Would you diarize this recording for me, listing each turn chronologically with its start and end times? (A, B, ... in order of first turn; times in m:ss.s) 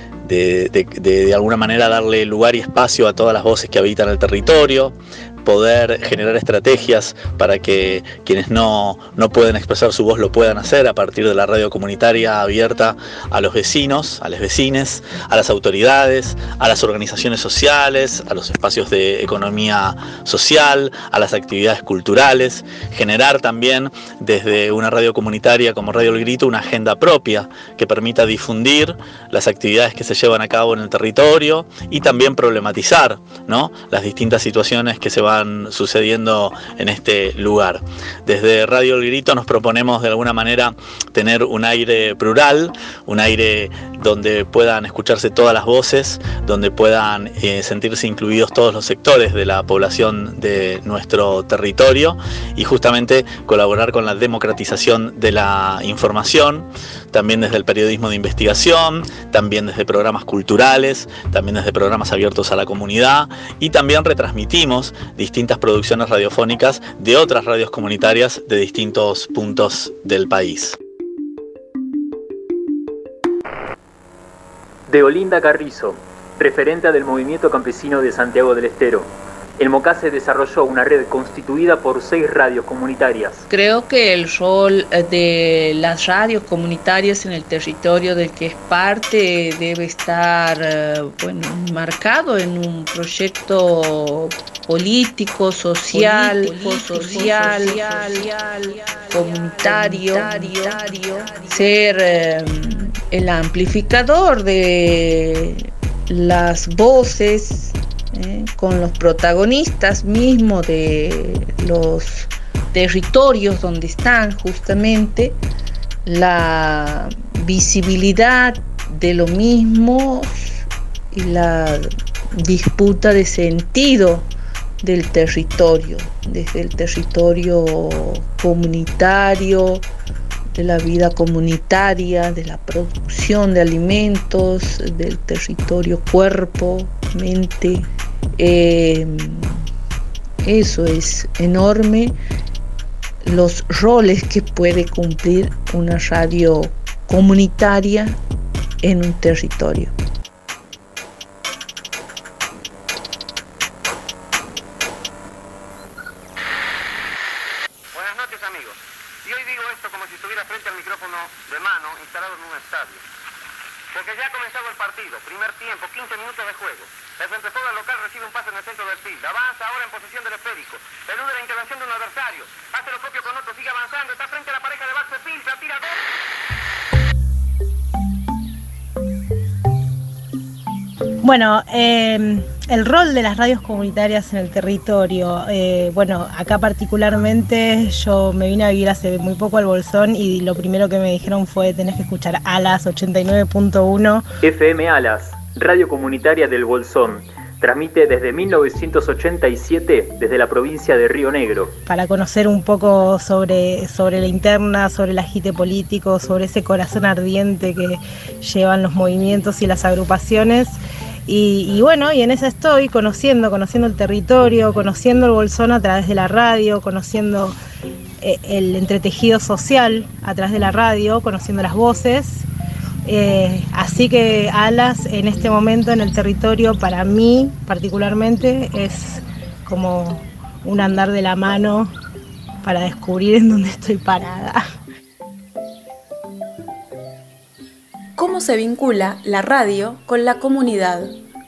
0:00.3-1:10.8 A
1:14.9-1:23.4 B
1:23.5-1:33.7 C
1:33.8-1:34.2 D
1:34.7-1:38.2 C
1:36.0-1:38.2 D
1:39.1-1:55.4 C
1:40.0-1:40.5 D
1:56.0-2:00.6 C
2:01.1-2:04.3 C
2:04.8-2:09.8 C
2:10.5-2:19.6 C
2:20.4-2:22.2 C
2:23.2-2:28.2 C
2:28.8-2:29.9 C
2:37.9-2:38.7 E
2:39.2-2:43.0 E
2:43.9-2:55.9 E
3:01.2-3:14.2 F
3:14.4-3:21.7 B
3:21.9-3:37.6 F
3:38.2-3:42.4 F
3:43.0-3:51.9 F
3:52.6-3:54.6 F
3:58.2-4:00.0 D